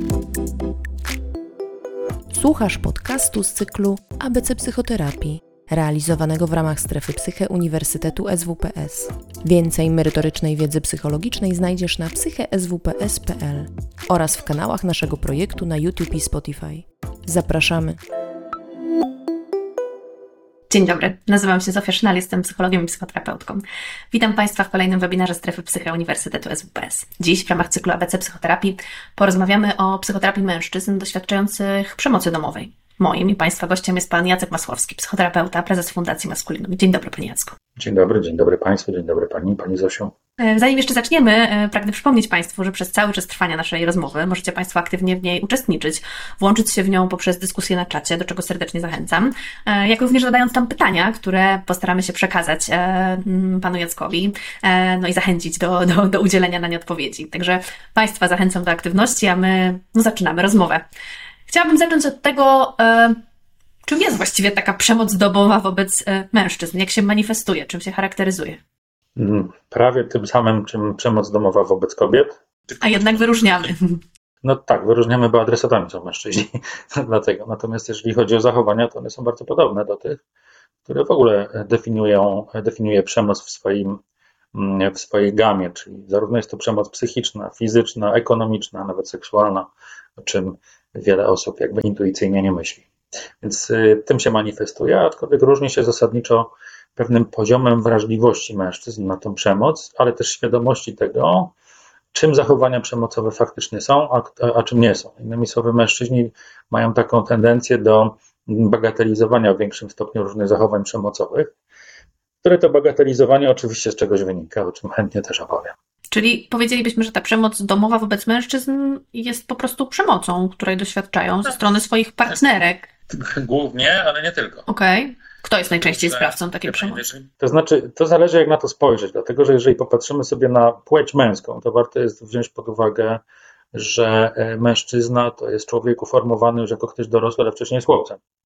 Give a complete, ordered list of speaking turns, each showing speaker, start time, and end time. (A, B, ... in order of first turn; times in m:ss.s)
0:02.3-0:18.0 A
0:20.7-0:37.5 B
0:37.8-0:40.1 C
0:40.4-1:00.8 B
1:01.5-1:03.2 B
1:03.9-1:08.6 B
1:09.2-1:12.4 C
1:12.8-1:14.0 B
1:14.4-1:20.2 C
1:20.9-1:24.0 C
1:24.5-1:32.9 C
1:33.4-1:41.5 C
1:42.1-1:51.5 C
1:52.4-1:55.8 C
1:56.1-2:02.9 B
2:03.1-2:04.7 C
2:04.7-2:07.0 B
2:05.8-2:13.2 C
2:13.7-2:18.2 C